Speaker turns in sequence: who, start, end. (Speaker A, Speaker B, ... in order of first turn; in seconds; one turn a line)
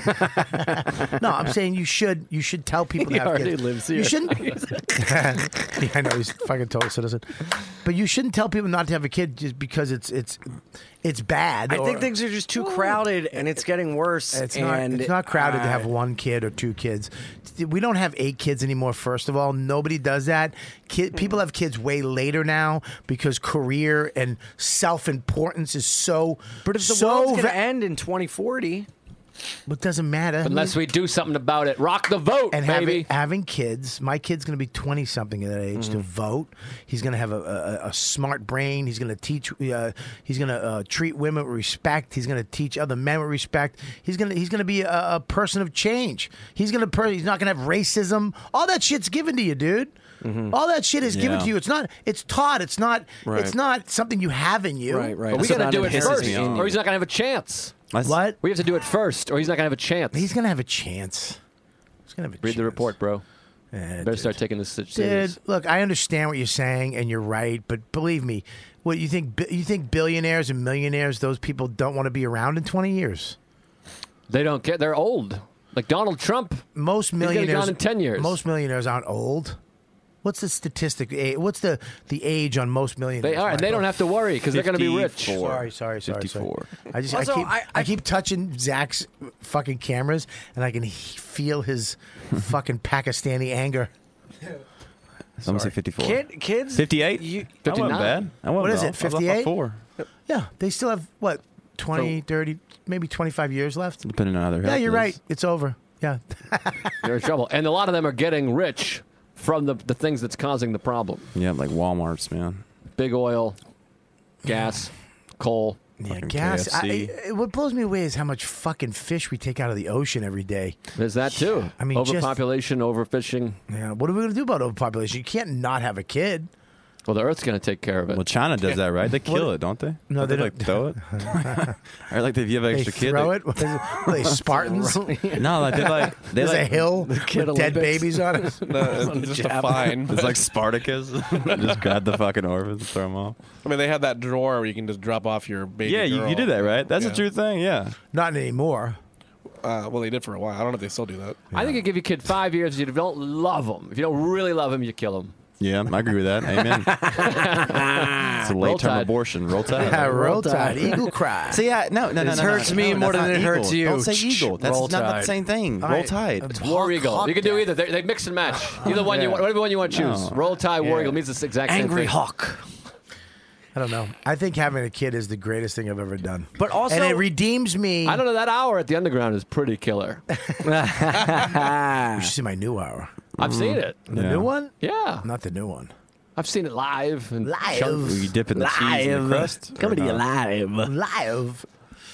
Speaker A: 0.1-0.9
Speaker B: 0.4-12.9
Speaker A: 3.0-4.8
Speaker A: 11.7-15.9
Speaker B: 14.3-27.6
Speaker A: 26.6-28.9
Speaker B: 29.7-30.8
Speaker C: 30.4-33.1
Speaker B: 32.5-50.0
Speaker A: 35.8-36.0
Speaker A: 50.2-50.5
Speaker B: 50.5-55.5
Speaker D: 51.1-51.5
Speaker A: 53.2-53.5
Speaker A: 54.9-56.7
Speaker C: 55.3-57.7
Speaker D: 55.4-56.8
Speaker D: 57.9-58.2
Speaker B: 58.0-58.4
Speaker C: 58.4-60.3
Speaker B: 60.1-61.4
Speaker B: 62.1-62.9
Speaker C: 62.4-63.2
Speaker B: 63.7-64.4
Speaker C: 64.0-65.3
Speaker B: 64.9-73.4
Speaker C: 74.3-76.6
Speaker B: 76.7-79.6
Speaker C: 77.2-78.4
Speaker B: 80.2-83.9
Speaker C: 83.2-85.4
Speaker D: 84.5-86.7
Speaker B: 85.3-93.9
Speaker A: 87.1-87.9
Speaker D: 95.4-99.8
Speaker B: 95.4-95.7
Speaker A: 96.0-97.9
Speaker C: 97.6-98.2
Speaker B: 98.6-99.5
Speaker B: 100.3-104.1
Speaker D: 104.0-105.2
Speaker B: 104.6-106.9
Speaker C: 107.0-111.3
Speaker D: 111.3-112.6
Speaker C: 113.0-113.6
Speaker C: 114.4-115.8
Speaker B: 116.0-120.8
Speaker D: 116.1-117.1
Speaker C: 121.0-123.6
Speaker B: 121.8-122.3
Speaker B: 123.7-126.5
Speaker C: 127.1-128.2
Speaker D: 128.1-134.3
Speaker B: 129.2-129.5
Speaker B: 130.1-131.7
Speaker B: 132.7-139.2
Speaker A: 134.4-140.0
Speaker D: 135.4-136.8
Speaker E: 138.7-140.4
Speaker D: 140.1-143.3
Speaker E: 143.6-147.2
Speaker D: 145.8-147.9
Speaker B: 148.1-149.0
Speaker E: 149.6-151.4
Speaker C: 151.5-155.3
Speaker D: 155.6-157.0
Speaker A: 156.6-158.4
Speaker C: 157.1-159.1
Speaker D: 158.3-160.1
Speaker B: 159.7-161.6
Speaker A: 159.8-161.2
Speaker D: 161.5-166.5
Speaker A: 162.2-165.3
Speaker B: 162.4-163.3
Speaker B: 164.1-164.5
Speaker B: 165.8-167.7
Speaker C: 166.6-172.2
Speaker A: 168.8-169.5
Speaker D: 169.9-170.3
Speaker A: 170.8-172.6
Speaker B: 173.7-178.2
Speaker A: 176.6-177.2
Speaker C: 178.1-180.2
Speaker B: 180.3-183.1
Speaker A: 180.6-182.3
Speaker D: 183.4-184.5
Speaker C: 183.4-184.0
Speaker B: 184.1-185.9
Speaker C: 184.8-185.2
Speaker C: 186.3-188.0
Speaker B: 187.4-188.3
Speaker D: 187.8-190.2
Speaker A: 188.5-190.9
Speaker B: 190.8-191.7